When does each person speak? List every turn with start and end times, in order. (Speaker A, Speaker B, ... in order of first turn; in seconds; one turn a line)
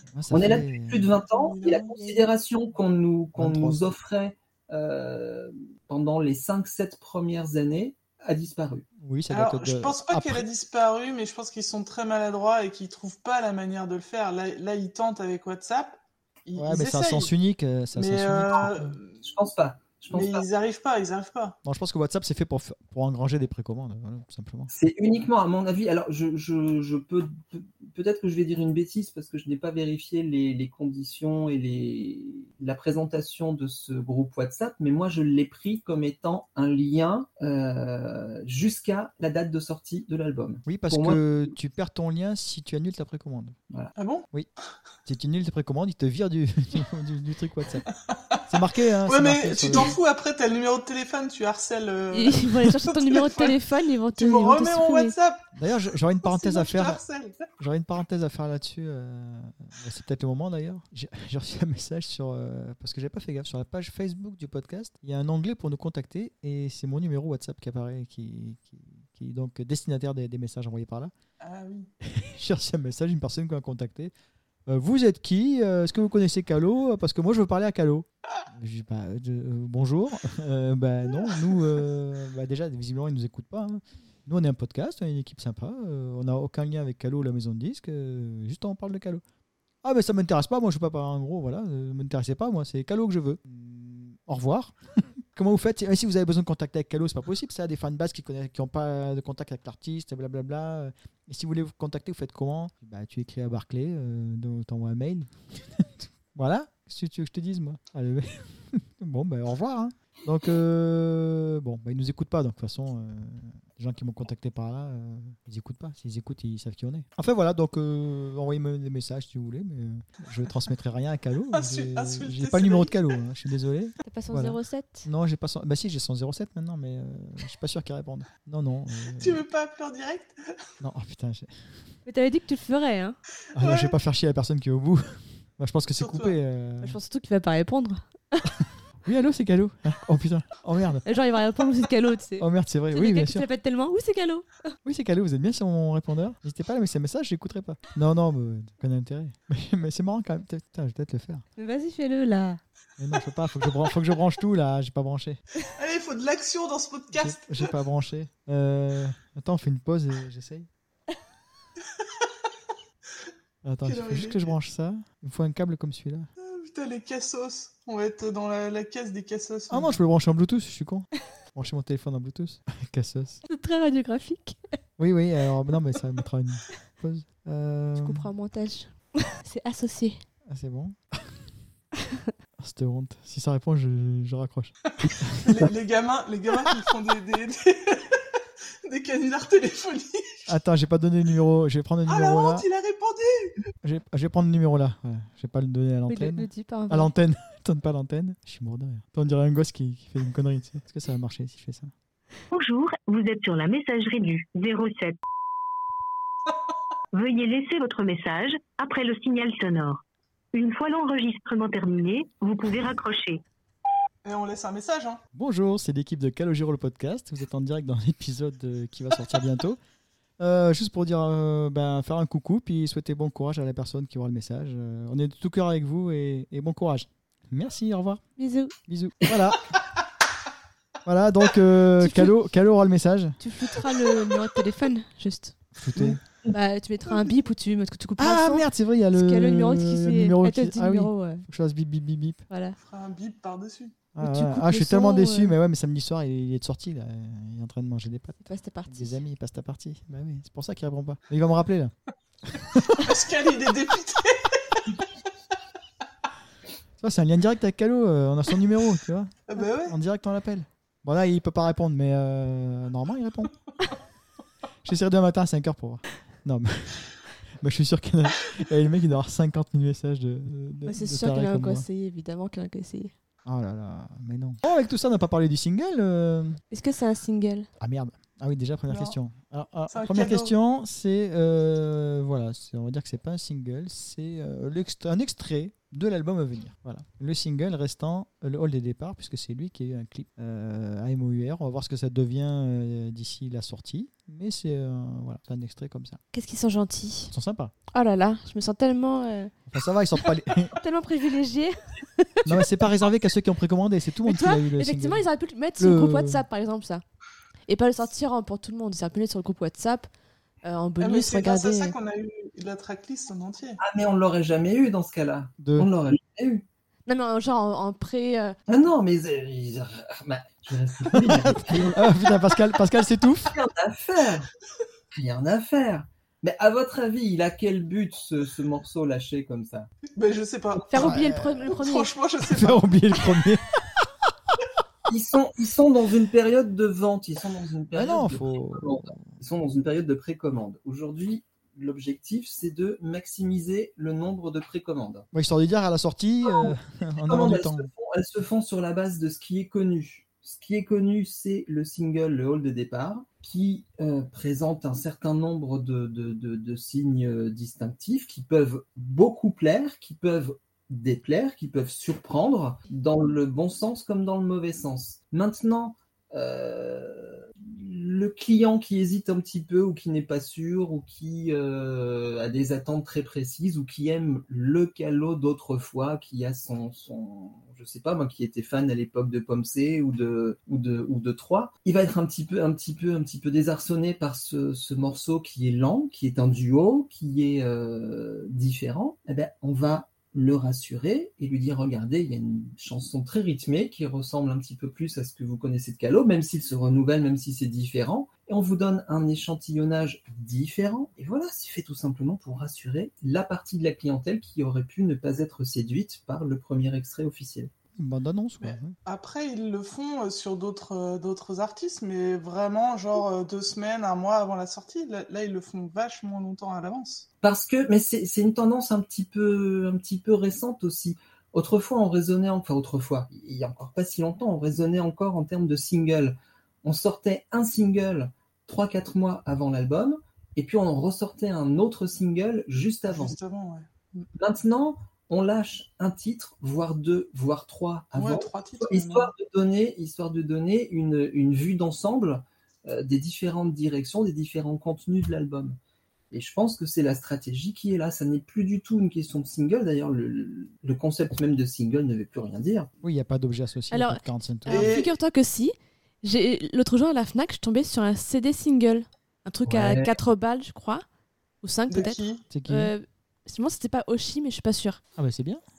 Speaker A: 0.1-1.1
Speaker B: 0.3-8.8
Speaker C: 1.3-2.0
Speaker A: 3.4-3.9
Speaker A: 9.0-10.4
Speaker C: 9.3-17.3
Speaker A: 16.6-19.0
Speaker C: 17.9-19.2
Speaker B: 19.2-20.5
Speaker C: 20.1-21.6
Speaker A: 21.6-24.7
Speaker B: 24.7-41.2
Speaker A: 40.7-43.6
Speaker C: 44.0-44.3
Speaker A: 45.0-47.9
Speaker C: 48.1-48.4
Speaker A: 48.5-50.0
Speaker C: 49.0-53.6
Speaker D: 52.1-55.1
Speaker C: 54.1-55.5
Speaker A: 55.5-57.0
Speaker C: 56.2-57.5
Speaker A: 57.6-71.1
Speaker C: 71.4-71.9
Speaker A: 72.0-74.1
Speaker A: 74.7-89.2
Speaker A: 89.8-94.8
Speaker A: 95.3-129.4
Speaker C: 121.5-123.0
Speaker D: 124.0-125.1
Speaker C: 129.2-130.3
Speaker A: 130.8-131.5
Speaker D: 132.1-133.2
Speaker A: 133.6-137.0
Speaker C: 133.6-133.9
Speaker C: 136.0-136.4
Speaker D: 136.8-138.5
Speaker A: 139.0-141.0
Speaker D: 141.1-144.7
Speaker A: 142.4-143.5
Speaker A: 144.8-151.5
Speaker D: 151.6-152.6
Speaker A: 153.0-155.4
Speaker C: 155.8-157.7
Speaker A: 157.1-160.7
Speaker A: 163.6-166.3
Speaker C: 163.9-164.6
Speaker C: 166.4-170.0
Speaker A: 169.7-173.4
Speaker D: 173.5-174.6
Speaker A: 175.0-178.3
Speaker D: 178.0-180.2
Speaker A: 180.5-181.3
Speaker A: 182.6-185.5
Speaker C: 185.0-188.2
Speaker C: 188.8-190.5
Speaker A: 190.5-192.7
Speaker C: 192.1-193.6
Speaker A: 193.8-201.9
Speaker D: 196.1-197.1
Speaker E: 202.5-205.2
Speaker E: 207.1-210.0
Speaker E: 210.5-213.4
Speaker C: 214.2-215.2
Speaker A: 215.3-219.8
Speaker A: 220.4-228.2
Speaker D: 228.4-228.7
Speaker A: 228.8-229.8
Speaker A: 231.1-233.4
Speaker D: 232.0-232.3
Speaker D: 233.4-235.7
Speaker A: 235.8-236.2
Speaker B: 236.0-236.5
Speaker D: 236.5-241.4
Speaker A: 238.2-242.5
Speaker D: 242.5-242.8
Speaker C: 242.8-244.0
Speaker A: 244.2-251.9
Speaker D: 244.2-245.6
Speaker D: 248.4-249.2
Speaker A: 252.4-253.0
Speaker C: 252.9-255.0
Speaker A: 257.0-263.5
Speaker C: 259.5-259.9
Speaker A: 264.8-271.9
Speaker D: 270.9-273.1
Speaker A: 273.5-276.6
Speaker D: 276.7-277.7
Speaker A: 277.8-296.2
Speaker C: 278.9-279.2
Speaker C: 279.9-280.5
Speaker D: 296.3-297.3
Speaker A: 297.3-297.7
Speaker D: 297.9-299.6
Speaker A: 299.7-300.8
Speaker D: 300.2-302.6
Speaker A: 302.4-305.3
Speaker D: 304.2-307.0
Speaker A: 305.8-306.4
Speaker D: 307.7-310.1
Speaker D: 310.6-311.9
Speaker C: 311.0-313.8
Speaker B: 313.8-316.6
Speaker A: 315.6-315.9
Speaker D: 317.1-318.6
Speaker B: 318.7-322.1
Speaker A: 321.1-323.6
Speaker B: 323.5-324.5
Speaker B: 325.1-329.9
Speaker C: 330.2-333.4
Speaker D: 330.9-332.1
Speaker A: 331.0-331.7
Speaker A: 332.4-334.6
Speaker B: 335.1-345.3
Speaker A: 337.9-339.4
Speaker A: 345.3-347.9
Speaker B: 346.4-407.7
Speaker A: 408.0-409.0
Speaker C: 408.6-417.3
Speaker B: 417.4-433.4
Speaker C: 433.1-434.3
Speaker B: 434.4-445.8
Speaker C: 438.1-439.3
Speaker B: 446.3-452.9
Speaker A: 453.0-455.0
Speaker D: 453.9-461.0
Speaker C: 454.7-455.1
Speaker B: 459.7-460.1
Speaker D: 461.6-465.0
Speaker C: 461.9-462.4
Speaker A: 462.5-462.9
Speaker A: 465.2-465.6